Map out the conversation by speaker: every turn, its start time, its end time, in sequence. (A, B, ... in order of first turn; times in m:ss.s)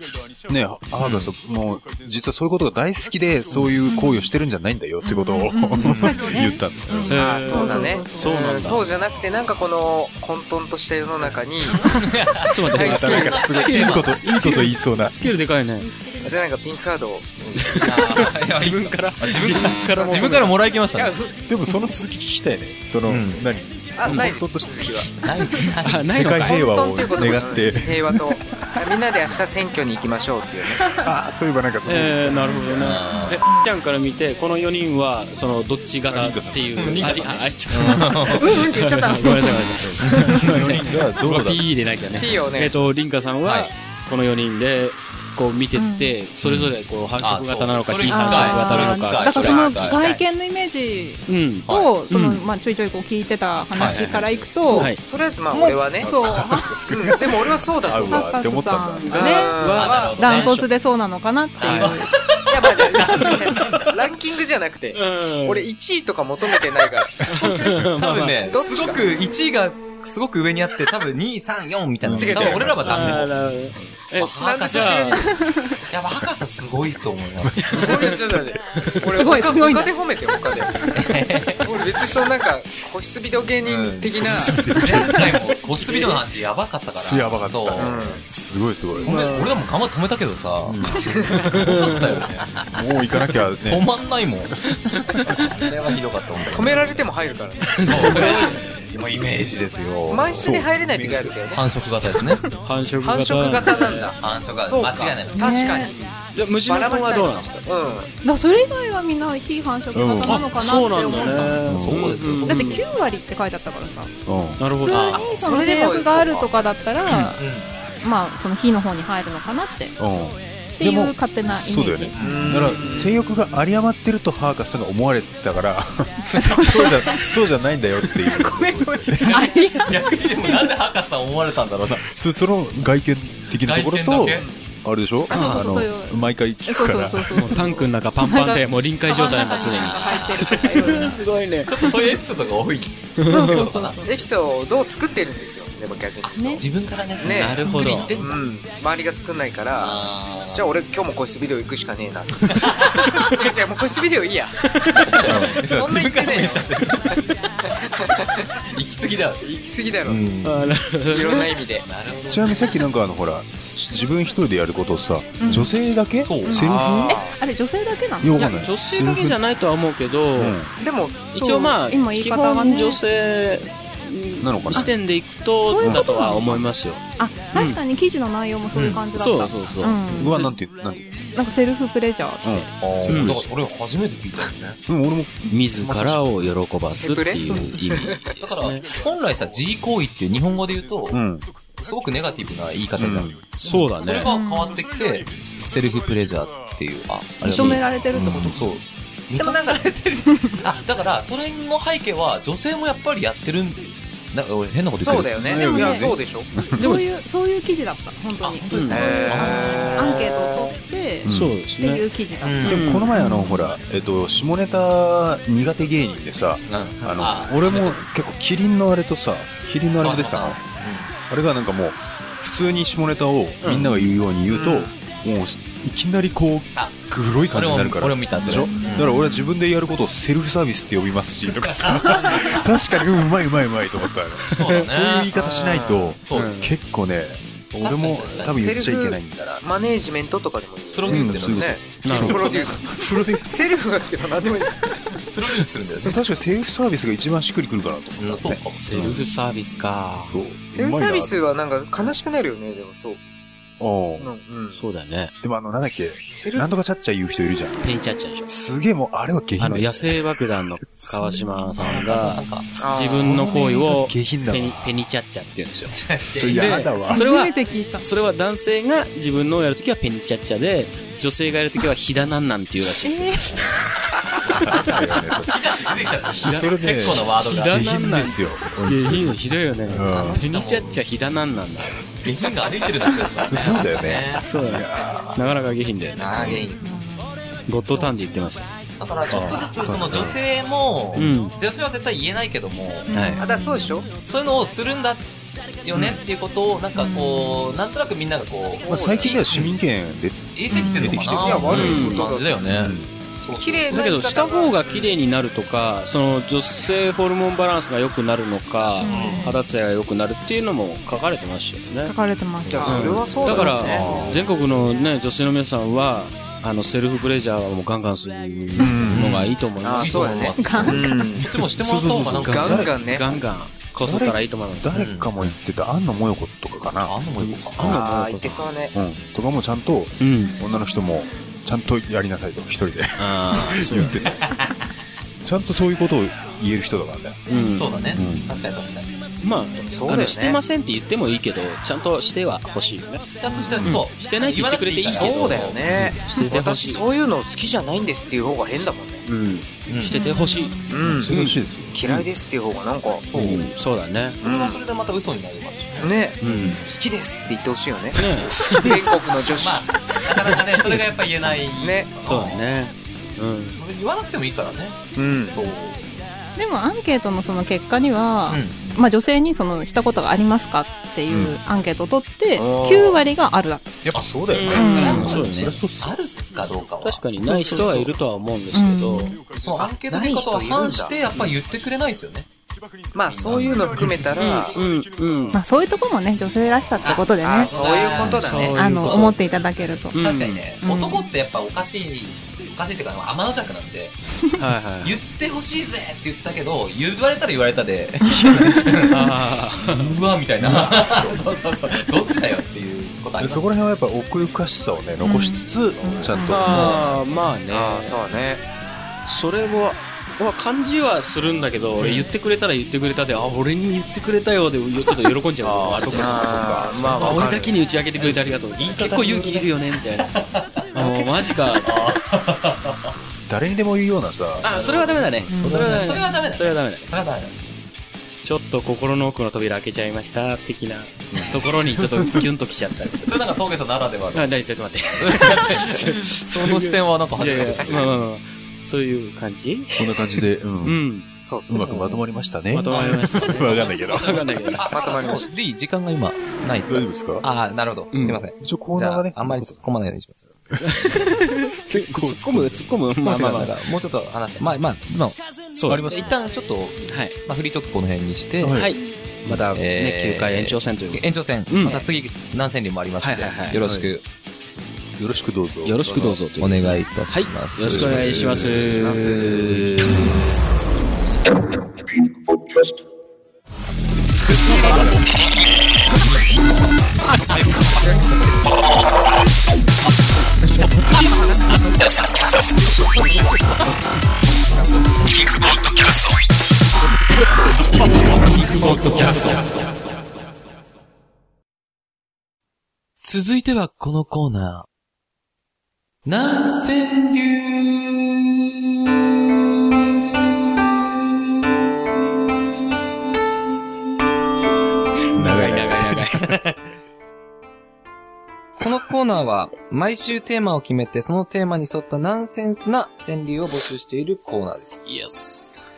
0:00.5-0:07.4 A
0:01.0-0:01.3 B
0:03.8-0:04.3 C
0:05.0-0:08.4 C
0:05.8-0:06.2 B
0:07.1-0:08.9 D
0:07.1-0:12.0 E
0:12.0-0:14.3 B
0:12.5-0:15.9 D
0:12.7-0:13.4 E
0:12.7-0:15.3 A
0:16.2-0:18.2 E
0:17.6-0:21.2 B
0:17.6-0:20.5 D
0:19.9-0:21.4 E
0:21.5-0:25.1 A
0:23.1-0:23.4 B
0:24.0-0:25.2 E
0:25.2-0:26.0 B
0:25.8-0:26.6 D
0:25.9-0:28.8 A
0:26.5-0:30.8 E
0:30.7-0:33.0 A
0:30.8-0:31.1 C
0:31.9-0:49.7 D
0:32.8-0:33.4 B
0:36.1-0:37.4 A
0:36.8-0:38.7 B
0:38.4-0:39.8 C
0:39.8-0:41.8 A
0:40.1-0:40.6 B
0:42.1-0:43.0 E
0:43.4-0:43.7 B
0:45.7-0:46.2 C
0:46.4-0:50.1 B
0:48.1-0:54.9 C
0:49.4-0:50.2 E
0:51.3-0:52.4 D
0:53.7-0:54.2 B
0:53.8-0:55.0 D
0:54.7-0:56.1 E
0:55.5-0:55.8 D
0:56.0-0:59.1 A
0:56.0-0:56.9 C
0:56.8-0:58.4 E
0:58.0-1:02.1 C
0:59.0-1:00.7 D
0:59.2-1:00.2 E
0:59.6-1:00.6 B
1:01.6-1:01.9 D
1:01.6-1:04.1 B
1:02.5-1:07.8 E
1:04.9-1:05.7 D
1:07.2-1:08.4 D
1:08.0-1:13.3 B
1:08.5-1:09.2 E
1:12.0-1:13.3 A
1:12.2-1:12.7 E
1:12.3-1:15.4 D
1:14.2-1:15.3 B
1:14.2-1:15.4 E
1:15.2-1:15.8 C
1:15.8-1:18.2 B
1:17.4-1:17.9 A
1:17.7-1:20.9 E
1:18.7-1:19.0 D
1:19.1-1:19.9 C
1:20.8-1:21.1 C
1:20.9-1:22.0 B
1:21.6-1:25.2 E
1:23.6-1:28.1 B
1:24.2-1:25.3 A
1:26.9-1:29.3 A
1:27.8-1:28.2 E
1:29.0-1:29.5 D
1:29.0-1:32.7 B
1:30.6-1:31.3 A
1:31.5-1:32.2 D
1:32.7-1:33.9 A
1:33.6-1:34.6 B
1:35.3-1:37.0 B
1:36.5-1:38.6 E
1:37.6-1:38.7 D
1:37.9-1:42.4 B
1:40.1-1:41.7 E
1:40.4-1:41.3 A
1:42.6-1:44.1 D
1:43.0-1:45.9 E
1:44.2-1:45.9 B
1:45.3-1:45.9 C
1:45.8-1:47.6 D
1:46.6-1:48.1 E
1:48.2-1:51.6 C
1:49.9-1:50.4 A
1:50.3-1:52.8 D
1:51.6-1:52.2 A
1:51.7-1:52.8 B
1:52.5-1:54.1 C
1:54.3-1:54.6 A
1:54.6-1:55.2 D
1:54.8-1:57.4 C
1:54.9-1:55.4 B
1:55.0-1:56.5 E
1:57.1-1:57.7 B
1:58.0-2:00.0 C
2:00.0-2:09.5 A
2:00.8-2:02.2 C
2:02.2-2:02.7 B
2:02.2-2:03.2 E
2:06.3-2:07.3 C
2:08.5-2:10.7 C
2:09.9-2:12.1 B
2:12.0-2:17.5 A
2:13.6-2:14.5 B
2:14.2-2:14.6 E
2:15.3-2:15.8 D
2:15.3-2:21.2 C
2:17.4-2:21.9 D
2:19.6-2:21.1 B
2:21.6-2:24.0 B
2:23.2-2:23.7 D
2:23.3-2:24.1 C
2:24.0-2:26.7 E
2:26.2-2:28.4 B
2:27.2-2:37.2 E
2:27.2-2:28.2 D
2:29.8-2:30.7 B
2:32.6-2:33.3 B
2:34.6-2:35.6 D
2:35.0-2:37.2 B
2:35.3-2:35.8 A
2:37.8-2:38.3 E
2:38.3-2:39.4 B
2:39.4-2:40.2 E
2:40.0-2:40.8 B
2:40.4-2:41.5 D
2:41.1-2:41.9 E
2:41.8-2:42.9 B
2:42.3-2:47.2 A
2:45.4-2:45.7 C
2:46.2-2:46.7 B
2:46.4-2:48.4 C
2:46.5-2:47.4 E
2:48.2-2:49.4 A
2:48.4-2:50.6 D
2:50.4-2:50.7 A
2:50.8-2:51.8 E
2:51.3-2:57.0 D
2:51.8-2:53.0 C
2:54.4-2:54.9 A
2:55.6-3:00.5 C
2:55.8-2:56.0 A
2:57.5-2:57.8 D
2:58.7-2:59.0 B
2:59.1-3:00.4 D
3:00.1-3:01.2 A
3:01.3-3:02.7 C
3:02.4-3:03.5 A
3:02.8-3:04.8 B
3:03.1-3:03.4 D
3:04.9-3:06.4 A
3:05.5-3:08.9 D
3:06.9-3:08.3 E
3:08.4-3:11.2 B
3:11.1-3:11.5 A
3:11.8-3:25.3 B
3:13.0-3:13.4 A
3:13.6-3:14.3 D
3:14.2-3:14.8 C
3:17.4-3:18.6 C
3:18.1-3:18.6 A
3:19.4-3:19.8 C
3:20.3-3:20.6 C
3:25.0-3:26.8 A
3:25.0-3:26.5 E
3:25.5-3:26.1 C
3:26.7-3:33.7 C
3:26.8-3:27.0 D
3:28.4-3:30.2 B
3:28.7-3:29.0 D
3:28.9-3:30.7 E
3:31.2-3:31.6 A
3:31.3-3:32.1 D
3:32.4-3:33.0 B
3:32.6-3:33.1 D
3:32.6-3:40.6 A
3:36.6-3:38.1 B
3:40.0-3:41.1 B
3:41.3-3:59.6 A
3:43.6-3:44.0 D
3:47.5-3:49.3 B
3:48.5-3:49.4 C
3:51.5-3:52.7 B
3:54.5-3:54.8 D
3:54.5-3:55.3 B
3:55.3-3:56.2 E
3:56.2-3:56.6 B
3:56.3-3:56.7 D
3:57.8-3:58.6 B
3:58.5-4:05.2 E
4:00.9-4:01.8 B
4:01.1-4:03.8 A
4:02.0-4:02.6 D
4:05.3-4:06.2 B
4:06.0-4:09.2 A
4:08.2-4:09.2 B
4:08.8-4:10.4 D
4:10.2-4:11.4 A
4:10.7-4:13.2 E
4:13.8-4:14.3 A
4:14.2-4:14.8 E
4:14.7-4:15.3 D
4:15.4-4:17.9 A
4:16.4-4:16.7 E
4:17.8-4:18.5 D
4:18.5-4:20.3 A
4:19.6-4:26.0 D
4:21.8-4:22.7 B
4:22.8-4:23.4 E
4:23.1-4:25.0 A
4:23.3-4:23.8 C
4:25.9-4:26.8 B
4:26.3-4:27.2 A
4:26.5-4:34.9 D
4:27.1-4:28.0 C
4:32.9-4:33.6 C
4:34.5-4:40.4 A
4:35.5-4:38.0 B
4:36.3-4:42.0 D
4:40.1-4:41.0 B
4:42.2-4:44.5 B
4:43.5-4:45.4 A
4:44.4-4:46.6 D
4:46.2-4:46.9 B
4:46.8-4:47.1 C
4:47.7-4:48.7 D
4:49.0-4:53.1 B
4:49.3-4:49.6 D
4:49.3-4:50.4 A
4:51.2-4:51.6 D
4:53.1-4:53.8 C
4:53.1-4:53.4 D
4:53.4-4:54.1 E
4:54.2-4:55.2 B
4:55.8-4:59.7 B
4:55.9-4:56.2 A
4:57.0-4:57.7 C
4:58.8-4:59.4 E
4:58.8-5:02.0 A
5:00.5-5:04.1 B
5:00.7-5:01.0 C
5:01.4-5:02.6 E
5:01.7-5:02.2 D
5:02.7-5:03.1 A
5:03.6-5:04.8 E
5:03.9-5:12.2 D
5:09.0-5:09.6 C
5:09.1-5:09.4 B
5:12.0-5:13.3 C
5:12.7-5:14.1 E
5:12.8-5:13.0 B
5:12.8-5:20.5 D
5:13.6-5:14.5 A
5:18.8-5:19.3 A
5:18.8-5:19.2 E
5:19.0-5:22.9 B
5:19.8-5:21.5 E
5:20.6-5:21.1 C
5:21.5-5:23.0 A
5:22.3-5:25.5 D
5:22.5-5:23.4 E
5:24.0-5:28.0 A
5:25.0-5:25.3 B
5:27.0-5:28.0 B
5:27.4-5:28.7 D
5:27.8-5:28.9 E
5:28.9-5:34.6 A
5:30.2-5:30.5 D
5:33.2-5:34.2 D
5:34.2-5:34.7 B
5:35.4-5:37.5 A
5:37.5-5:38.4 D
5:37.7-5:39.1 B
5:38.1-5:38.6 A
5:39.4-5:43.3 D
5:39.8-5:40.6 E
5:43.4-5:45.8 B
5:43.8-5:47.0 D
5:45.2-5:49.2 E
5:49.2-5:51.6 D
5:49.9-5:50.2 B
5:50.1-5:50.9 C
5:50.9-5:51.3 E
5:51.0-5:52.2 A
5:51.9-5:53.2 E
5:53.3-5:53.7 B
5:53.3-5:54.4 D
5:54.4-5:56.2 B
5:54.4-5:54.8 E
5:56.0-5:59.9 E
5:56.4-5:56.8 A
5:56.4-5:56.8 D
5:58.2-5:58.7 D
5:58.5-5:59.4 A
5:59.4-6:02.7 B
6:00.3-6:01.1 A
6:01.8-6:02.1 E
6:02.2-6:03.8 D
6:03.8-6:05.0 B
6:05.2-6:05.6 E
6:05.5-6:06.0 B
6:06.6-6:14.0 C
6:08.5-6:09.0 B
6:11.3-6:11.6 A
6:12.6-6:13.2 E
6:14.0-6:16.4 A
6:14.1-6:18.1 B
6:14.5-6:15.8 D
6:14.7-6:15.3 C
6:17.0-6:19.4 D
6:18.7-6:19.4 C
6:19.4-6:22.5 B
6:19.8-6:21.2 E
6:23.1-6:24.8 E
6:23.3-6:24.4 B
6:24.4-6:25.6 D
6:25.5-6:27.7 C
6:27.0-6:29.4 B
6:27.4-6:29.3 E
6:28.2-6:29.4 D
6:28.7-6:30.2 C
6:30.1-6:30.6 D
6:30.2-6:34.2 B
6:30.8-6:31.3 C
6:34.6-6:35.2 D
6:35.0-6:43.7 B
6:38.3-6:38.9 C
6:39.1-6:40.1 D
6:40.6-6:41.5 A
6:43.4-6:47.1 A
6:45.2-6:46.6 C
6:46.5-6:48.2 D
6:46.7-6:47.3 B
6:47.7-6:48.6 E
6:49.3-7:00.3 D
6:55.6-6:59.8 A
6:56.1-6:57.8 E
7:00.3-7:00.8 B
7:00.9-7:02.2 D
7:01.8-7:03.1 B
7:03.5-7:04.7 A
7:04.6-7:07.1 D
7:04.7-7:07.6 B
7:05.5-7:05.9 C
7:08.4-7:13.4 D
7:11.3-7:12.4 A
7:13.2-7:14.6 B
7:14.3-7:21.3 D
7:15.2-7:18.1 B
7:19.9-7:21.0 A
7:21.4-7:22.1 E
7:21.7-7:24.4 A
7:21.8-7:22.2 B
7:22.7-7:24.9 D
7:22.9-7:30.5 B
7:24.9-7:25.5 E
7:26.9-7:27.4 A
7:28.1-7:28.4 D
7:28.6-7:29.8 A
7:30.8-7:33.7 D
7:31.8-7:33.0 A
7:33.2-7:38.8 B
7:35.7-7:36.3 D
7:35.9-7:36.2 A
7:37.1-7:37.4 D
7:38.6-7:39.7 A
7:38.7-7:42.0 D
7:39.8-7:44.2 B
7:43.2-7:43.8 D
7:43.8-7:44.1 A
7:45.2-7:46.4 A
7:45.8-7:50.2 D
7:46.6-7:48.8 B
7:47.8-7:48.7 A
7:49.0-7:49.7 E
7:54.8-7:55.1 B
7:57.6-7:58.2 B
8:08.4-8:09.6 B
8:08.8-8:09.6 A
8:13.2-8:14.9 B
8:16.2-8:18.6 B
8:25.3-8:26.5 D
8:25.4-8:26.1 A
8:25.4-8:25.9 B
8:26.4-8:26.8 B
8:28.8-8:35.0 B
8:35.1-8:35.8 D